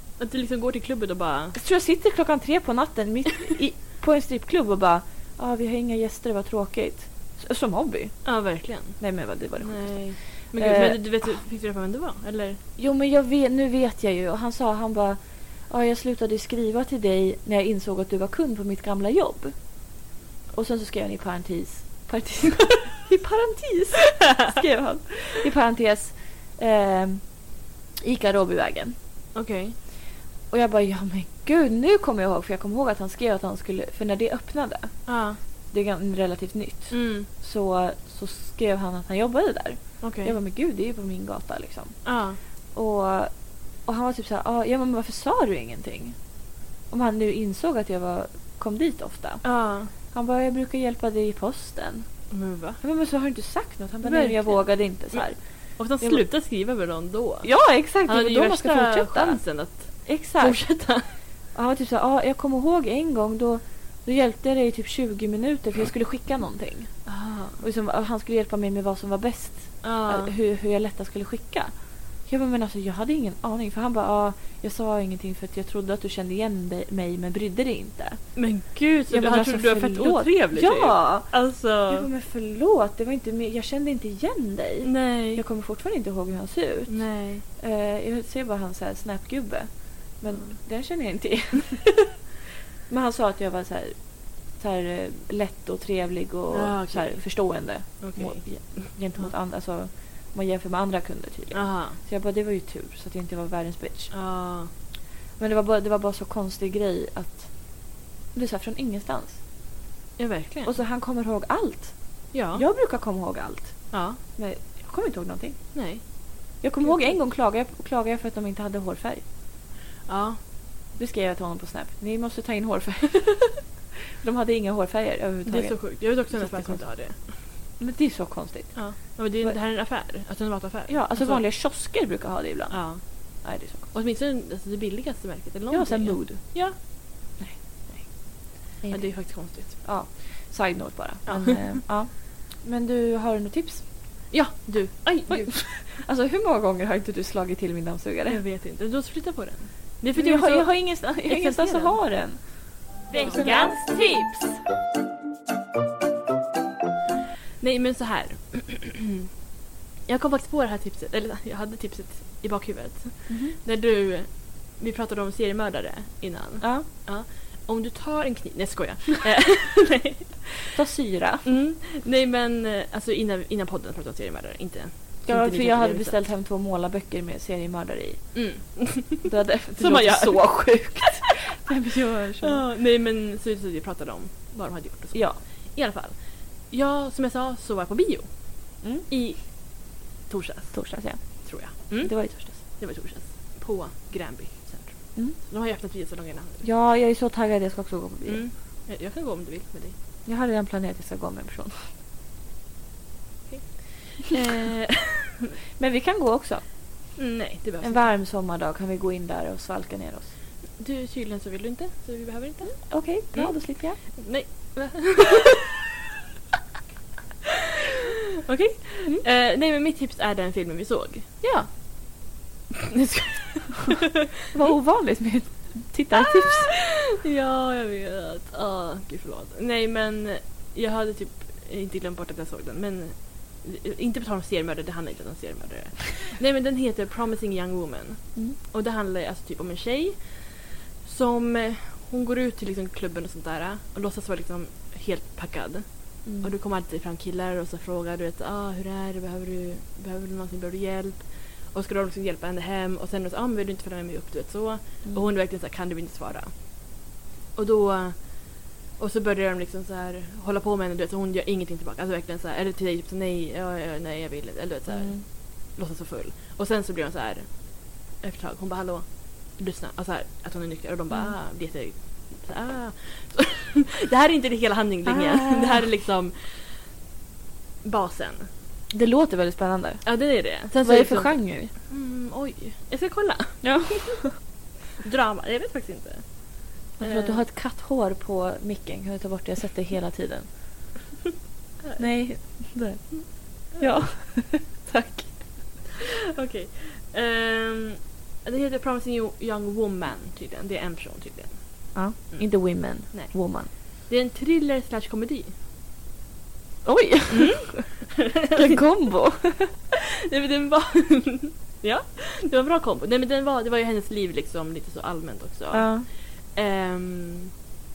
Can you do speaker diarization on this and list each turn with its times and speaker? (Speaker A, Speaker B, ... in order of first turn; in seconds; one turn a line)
Speaker A: 0.2-1.6
Speaker B: 1.5-8.3
Speaker A: 8.2-9.1
Speaker B: 8.9-11.3
Speaker A: 9.6-12.6
Speaker B: 12.8-19.6
Speaker B: 20.5-27.3
Speaker B: 28.0-28.9
Speaker A: 29.3-29.7
Speaker B: 30.5-35.1
Speaker A: 35.1-35.4
Speaker B: 35.7-42.0
Speaker A: 36.9-37.3
Speaker A: 40.0-40.3
Speaker A: 42.0-42.4
Speaker B: 42.7-43.3
Speaker B: 43.8-46.1
Speaker B: 46.9-49.4
Speaker A: 49.4-49.9
Speaker B: 49.9-52.1
Speaker A: 52.3-52.8
Speaker B: 52.8-55.4
Speaker A: 54.0-57.5
Speaker B: 57.4-59.4
Speaker A: 58.0-61.1
Speaker B: 60.0-60.6
Speaker B: 61.5-67.0
Speaker A: 67.0-67.6
Speaker B: 67.6-71.7
Speaker A: 69.8-70.3
Speaker B: 72.3-78.2
Speaker A: 78.3-82.1
Speaker B: 79.1-92.2
Speaker A: 84.8-85.4
Speaker A: 86.9-87.4
Speaker A: 90.3-90.5
Speaker B: 92.9-104.1
Speaker A: 96.5-99.3
Speaker A: 101.5-102.0
Speaker A: 104.1-104.7
Speaker B: 105.4-107.5
Speaker B: 108.3-109.4
Speaker A: 110.2-110.7
Speaker B: 110.6-115.7
Speaker A: 112.3-112.6
Speaker A: 113.9-114.2
Speaker A: 115.7-116.0
Speaker B: 116.6-119.2
Speaker A: 116.8-117.1
Speaker A: 120.1-120.4
Speaker B: 121.0-126.9
Speaker A: 125.5-127.4
Speaker B: 127.8-129.6
Speaker A: 128.7-131.4
Speaker B: 130.9-132.9
Speaker A: 132.7-133.0
Speaker B: 133.4-133.9
Speaker A: 133.9-136.7
Speaker B: 135.7-136.4
Speaker B: 138.8-143.8
Speaker A: 138.9-139.8
Speaker A: 141.2-141.8
Speaker A: 144.3-145.8
Speaker B: 145.3-148.4
Speaker A: 148.3-152.0
Speaker B: 150.1-154.5
Speaker A: 153.1-153.9
Speaker A: 157.6-159.2
Speaker A: 160.1-170.7
Speaker B: 163.3-163.6
Speaker B: 166.6-166.9
Speaker B: 170.7-171.4
Speaker A: 171.4-176.2
Speaker B: 175.2-178.4
Speaker A: 178.3-180.9
Speaker B: 179.2-182.6
Speaker A: 182.4-188.3
Speaker B: 185.1-185.4
Speaker A: 189.0-189.6
Speaker A: 190.3-196.7
Speaker B: 190.7-192.6
Speaker B: 196.6-198.4
Speaker A: 198.2-199.9
Speaker B: 200.2-201.9
Speaker A: 203.5-205.5
Speaker B: 205.8-206.6
Speaker A: 207.2-208.1
Speaker B: 207.8-210.3
Speaker A: 210.8-215.8
Speaker B: 212.8-214.0
Speaker A: 217.9-221.3
Speaker B: 221.4-221.7
Speaker A: 222.9-224.0
Speaker B: 224.5-226.7
Speaker A: 226.1-256.6
Speaker B: 246.2-246.5
Speaker A: 257.5-276.8
Speaker B: 264.9-265.2
Speaker B: 275.1-275.8
Speaker A: 277.8-278.5
Speaker B: 278.9-281.7
Speaker A: 280.0-284.2
Speaker B: 283.6-284.4
Speaker A: 285.0-286.3
Speaker A: 286.9-287.4
Speaker B: 287.0-290.5
Speaker B: 292.0-295.5
Speaker A: 296.3-302.5
Speaker B: 301.9-303.7
Speaker A: 303.1-303.3
Speaker A: 304.1-305.5
Speaker B: 306.8-309.7
Speaker A: 307.3-308.8
Speaker A: 309.9-317.5
Speaker B: 315.7-316.1